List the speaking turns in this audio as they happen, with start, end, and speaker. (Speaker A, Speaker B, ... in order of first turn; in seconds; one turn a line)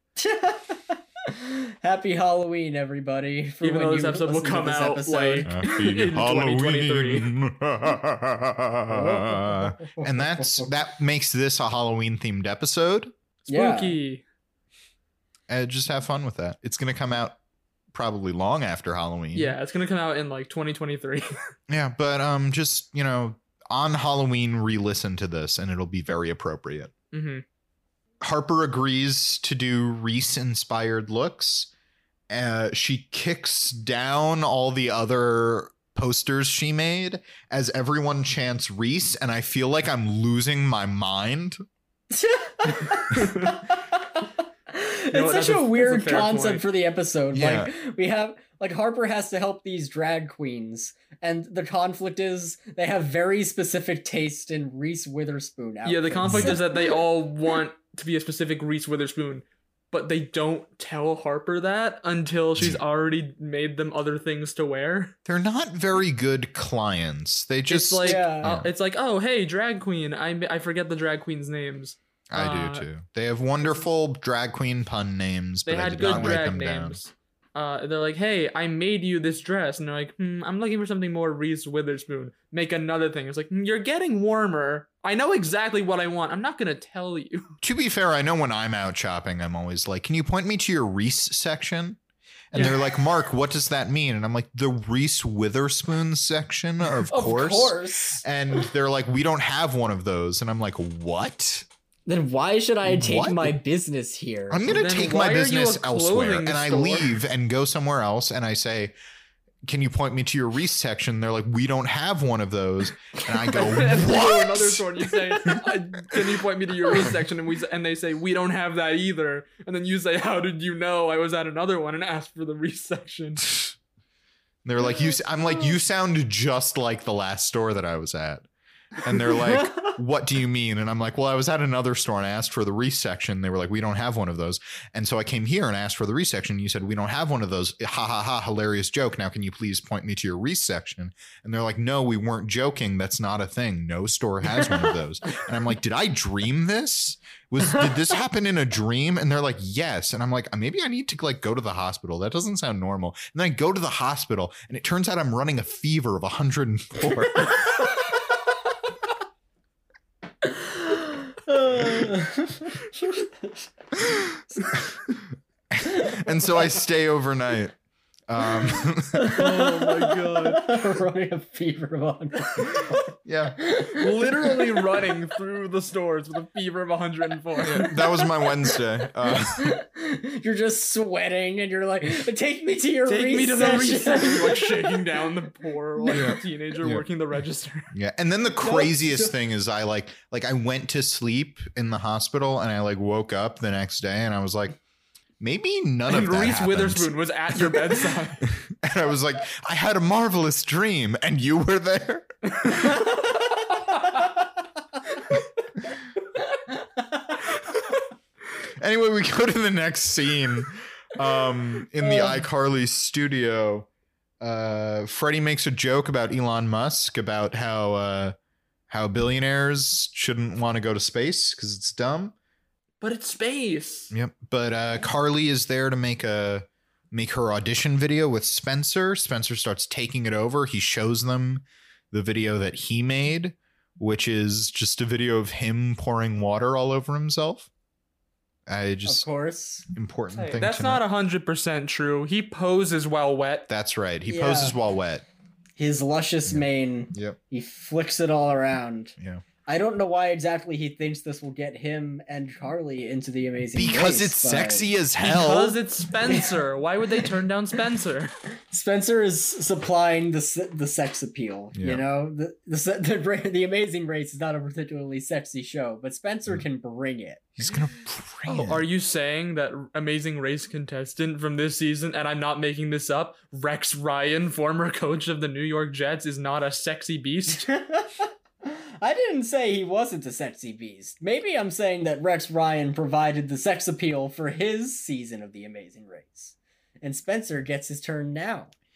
Speaker A: 0.2-5.9
Speaker B: 3.6-7.3
Speaker C: 5.5-13.1
Speaker A: 8.9-10.7
Speaker B: 13.4-14.2
Speaker A: 13.5-14.0
Speaker C: 15.5-17.4
Speaker C: 17.9-19.6
Speaker B: 19.3-21.3
Speaker C: 21.7-26.9
Speaker B: 27.1-27.4
Speaker C: 28.2-31.7
Speaker C: 32.3-41.6
Speaker A: 42.1-56.8
Speaker B: 43.1-43.5
Speaker B: 45.1-46.6
Speaker C: 47.3-47.7
Speaker B: 55.8-65.1
Speaker C: 56.2-56.6
Speaker C: 65.2-68.7
Speaker B: 67.7-72.9
Speaker A: 68.0-68.6
Speaker C: 72.3-77.0
Speaker B: 75.7-87.5
Speaker C: 87.6-92.0
Speaker C: 92.5-101.7
Speaker B: 92.5-92.8
Speaker A: 97.0-98.2
Speaker A: 102.1-104.9
Speaker C: 102.8-103.5
Speaker C: 104.5-108.9
Speaker B: 104.7-107.1
Speaker C: 109.7-114.9
Speaker B: 113.5-123.5
Speaker C: 124.6-128.4
Speaker C: 129.0-157.6
Speaker A: 160.4-163.6
Speaker C: 164.7-167.8
Speaker A: 165.9-166.2
Speaker C: 168.3-169.3
Speaker A: 169.1-173.0
Speaker B: 169.3-170.6
Speaker C: 173.2-173.6
Speaker A: 173.6-174.8
Speaker B: 173.8-178.0
Speaker C: 177.6-179.8
Speaker A: 179.5-185.2
Speaker B: 183.1-187.9
Speaker A: 186.0-186.4
Speaker C: 186.1-187.0
Speaker C: 187.9-194.8
Speaker A: 188.6-189.3
Speaker C: 195.4-197.8
Speaker B: 196.1-198.4
Speaker C: 198.4-203.0
Speaker B: 202.6-203.3
Speaker C: 208.8-213.9
Speaker A: 212.0-212.4
Speaker C: 214.4-218.3
Speaker C: 218.9-222.3
Speaker B: 223.0-224.1
Speaker C: 224.1-237.7
Speaker C: 238.7-239.2
Speaker A: 239.0-239.9
Speaker C: 239.9-241.0
Speaker B: 240.3-243.7
Speaker C: 243.7-245.2
Speaker A: 244.3-244.8
Speaker A: 245.8-249.1
Speaker C: 246.5-247.4
Speaker C: 249.2-249.4
Speaker A: 249.7-254.8
Speaker C: 253.7-255.8
Speaker B: 255.2-258.3
Speaker A: 256.2-256.5
Speaker A: 258.7-267.5
Speaker C: 261.7-262.0
Speaker C: 267.6-268.8
Speaker B: 268.5-277.7
Speaker A: 277.6-288.7